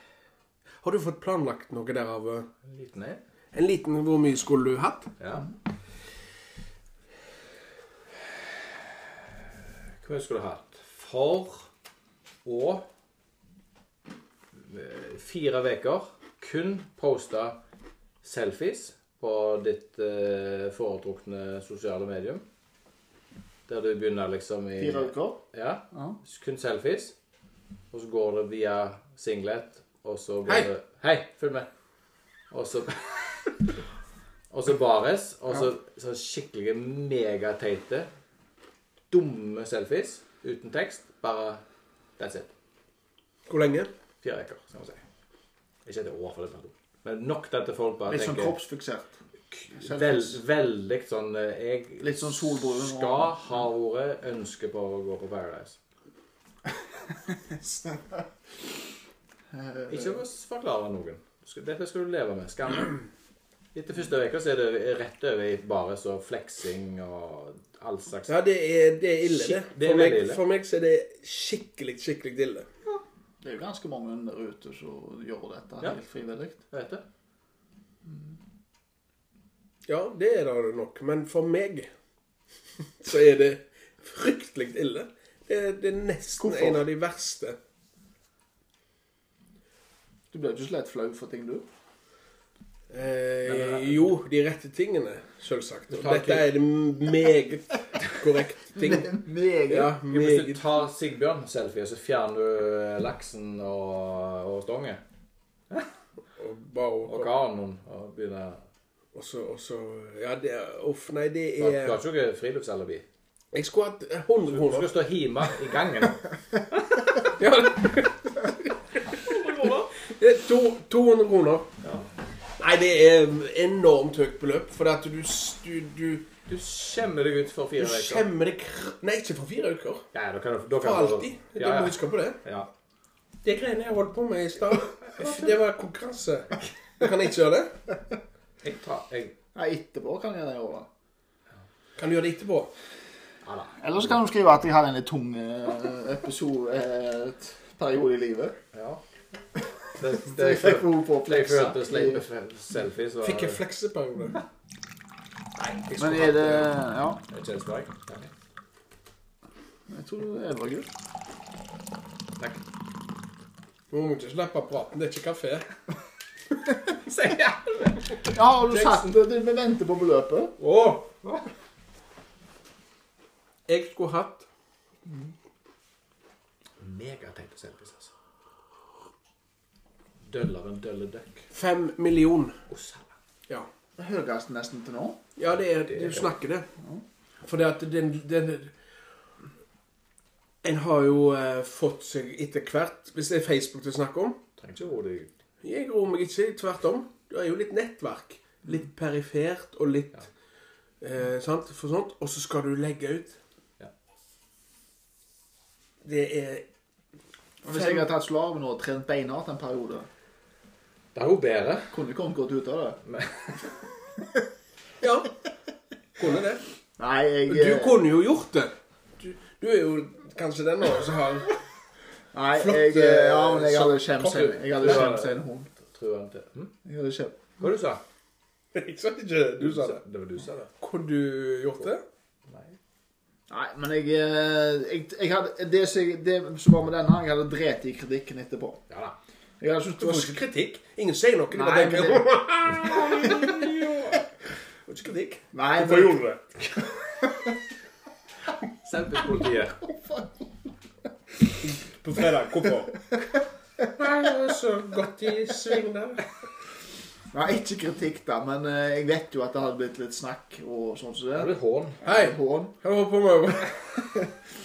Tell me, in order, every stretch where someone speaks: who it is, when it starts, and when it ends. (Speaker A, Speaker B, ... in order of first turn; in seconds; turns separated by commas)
Speaker A: 0.8-2.5, Speaker B: 2.6-3.2, Speaker A: 3.5-5.1, Speaker B: 5.2-5.5, Speaker B: 10.0-11.7, Speaker B: 12.4-12.9, Speaker B: 14.6-17.6, Speaker B: 18.2-22.5, Speaker B: 23.7-27.1, Speaker C: 24.8-25.4, Speaker C: 25.9-26.2, Speaker B: 27.9-31.7, Speaker B: 32.5-33.6, Speaker B: 34.5-38.1, Speaker B: 39.1-41.6, Speaker B: 42.2-42.5, Speaker A: 43.5-43.9, Speaker B: 44.2-45.0, Speaker B: 45.9-48.6, Speaker C: 48.1-49.2, Speaker B: 49.7-55.8, Speaker C: 49.7-50.4, Speaker C: 52.0-53.6, Speaker C: 57.3-58.2, Speaker C: 59.5-60.2, Speaker B: 59.9-63.0, Speaker B: 63.7-68.3, Speaker A: 68.3-72.7, Speaker B: 69.3-70.4, Speaker C: 73.4-76.6, Speaker B: 76.7-77.0, Speaker C: 78.1-78.3, Speaker A: 79.9-81.9, Speaker A: 83.0-87.6, Speaker C: 86.4-86.8, Speaker C: 90.3-91.7, Speaker A: 92.9-100.6, Speaker B: 93.5-94.1, Speaker B: 95.9-96.5, Speaker C: 98.8-100.0, Speaker B: 100.1-105.0, Speaker A: 106.4-107.3, Speaker B: 107.1-108.6, Speaker A: 109.1-112.0, Speaker B: 111.6-113.1, Speaker A: 113.5-114.9, Speaker B: 114.5-117.3, Speaker A: 117.4-118.7, Speaker B: 119.1-119.9, Speaker A: 120.0-121.7, Speaker B: 121.8-122.1, Speaker A: 122.6-126.3, Speaker B: 126.5-128.3, Speaker A: 127.8-130.1, Speaker B: 130.1-132.7, Speaker A: 130.8-132.4, Speaker A: 133.4-137.8, Speaker B: 135.2-135.5, Speaker B: 138.6-139.4, Speaker C: 139.6-140.9, Speaker A: 142.0-142.7, Speaker B: 143.4-144.1, Speaker C: 143.8-148.6, Speaker B: 148.7-149.0, Speaker B: 149.9-153.6, Speaker C: 150.2-152.2, Speaker A: 153.2-154.4, Speaker B: 155.6-155.9, Speaker A: 155.9-156.6, Speaker C: 156.0-157.2, Speaker B: 157.3-158.3, Speaker C: 159.9-160.9, Speaker A: 163.9-165.7, Speaker B: 167.0-169.1, Speaker C: 168.2-170.6, Speaker B: 170.6-171.5, Speaker A: 173.7-174.5, Speaker C: 175.1-175.3, Speaker B: 176.8-178.1, Speaker B: 180.3-181.5, Speaker A: 181.5-182.6, Speaker B: 182.7-183.1, Speaker C: 184.0-185.2, Speaker A: 185.4-186.7, Speaker B: 185.9-186.3, Speaker A: 187.4-188.8, Speaker A: 190.6-194.4, Speaker B: 194.6-195.3, Speaker A: 195.6-200.3, Speaker A: 201.0-203.4, Speaker A: 206.0-206.7, Speaker C: 207.6-210.1, Speaker A: 207.7-208.1, Speaker B: 211.2-211.9, Speaker C: 211.9-213.0, Speaker B: 213.1-213.7, Speaker A: 215.0-215.3, Speaker A: 216.2-216.7, Speaker C: 217.0-218.0, Speaker A: 217.5-221.6, Speaker C: 222.3-225.7, Speaker A: 222.6-225.1, Speaker B: 224.7-226.7, Speaker C: 226.8-227.5, Speaker B: 227.6-228.0, Speaker A: 228.7-230.0, Speaker B: 229.6-230.7, Speaker A: 230.8-232.0, Speaker B: 232.5-232.8, Speaker C: 233.5-238.8, Speaker B: 238.9-239.2, Speaker C: 239.6-240.4, Speaker A: 240.0-244.0, Speaker C: 241.5-242.3, Speaker B: 243.0-244.2, Speaker A: 244.9-246.8, Speaker C: 245.5-246.2, Speaker C: 247.2-247.5, Speaker B: 248.8-249.8, Speaker C: 249.8-250.3, Speaker A: 251.6-253.0, Speaker A: 254.1-256.2, Speaker B: 254.9-255.5, Speaker C: 257.3-262.7, Speaker B: 261.4-262.0, Speaker A: 262.0-263.8